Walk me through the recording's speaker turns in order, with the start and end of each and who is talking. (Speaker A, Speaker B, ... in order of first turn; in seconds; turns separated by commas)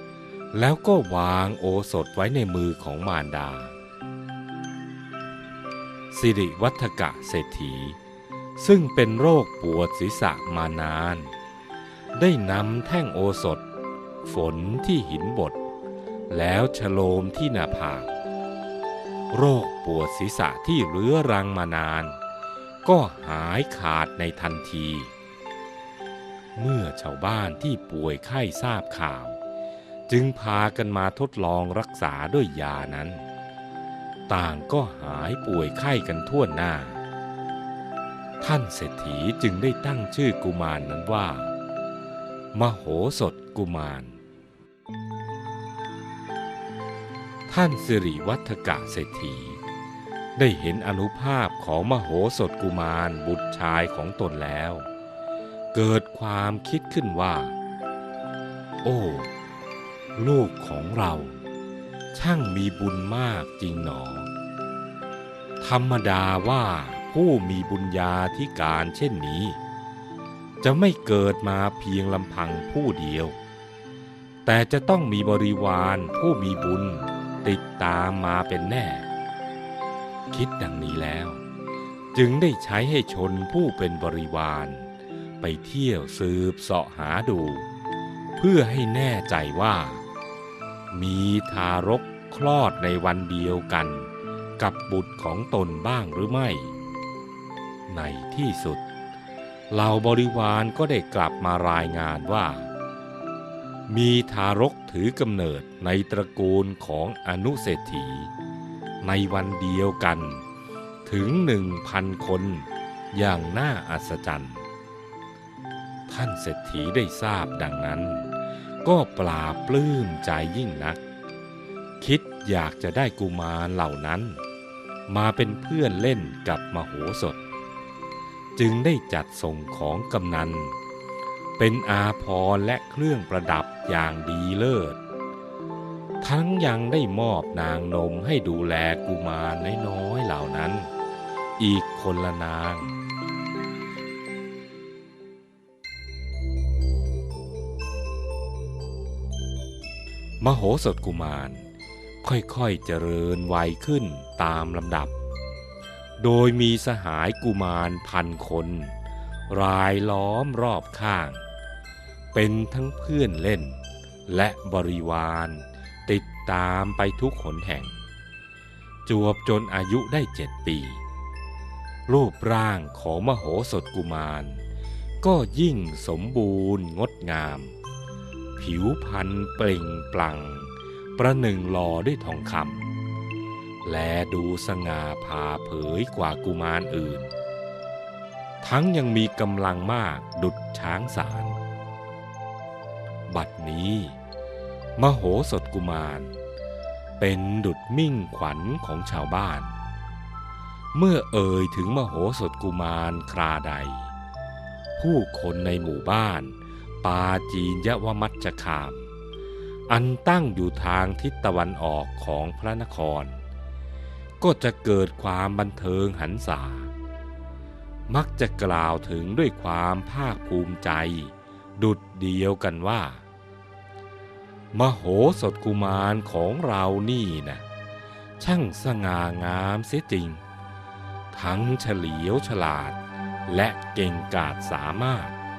Speaker A: 0.5-3.7, Speaker A: 6.1-8.0, Speaker A: 8.6-11.3, Speaker A: 12.2-13.6, Speaker A: 14.2-15.6, Speaker A: 16.3-18.1, Speaker A: 19.3-22.2, Speaker A: 22.8-25.1, Speaker A: 26.6-29.4, Speaker A: 30.1-33.2, Speaker A: 34.3-37.0, Speaker A: 38.4-41.5, Speaker A: 42.5-44.2, Speaker A: 47.5-49.6, Speaker A: 50.4-54.9, Speaker A: 55.7-57.5, Speaker A: 58.8-59.3, Speaker A: 60.1-61.4, Speaker A: 62.1-64.3, Speaker A: 65.6-69.6, Speaker A: 70.6-73.3, Speaker A: 74.5-79.1, Speaker A: 80.3-81.4, Speaker A: 82.1-84.9, Speaker A: 85.4-87.7, Speaker A: 88.4-90.0, Speaker A: 90.9-96.8, Speaker A: 97.9-98.8, Speaker A: 99.7-102.7, Speaker A: 103.9-108.3, Speaker A: 109.0-110.4, Speaker A: 111.0-114.6, Speaker A: 116.1-118.3, Speaker A: 118.8-121.0, Speaker A: 122.0-124.4, Speaker A: 125.1-127.4, Speaker A: 128.6-130.8, Speaker A: 131.6-135.0, Speaker A: 136.2-140.9, Speaker A: 141.6-142.9, Speaker A: 150.4-151.7, Speaker A: 152.2-155.1, Speaker A: 156.2-158.9, Speaker A: 159.5-161.4, Speaker A: 162.3-168.0, Speaker A: 169.1-171.0, Speaker A: 172.1-174.6, Speaker A: 175.2-177.7, Speaker A: 178.6-182.9, Speaker A: 183.8-187.3, Speaker A: 188.6-191.6, Speaker A: 193.3-194.2, Speaker A: 195.0-196.4, Speaker A: 197.2-199.7, Speaker A: 200.9-204.1, Speaker A: 205.0-209.1, Speaker A: 209.9-213.4, Speaker A: 214.4-216.9, Speaker A: 218.1-223.2, Speaker A: 224.7-227.6, Speaker A: 228.4-230.4, Speaker A: 231.3-235.4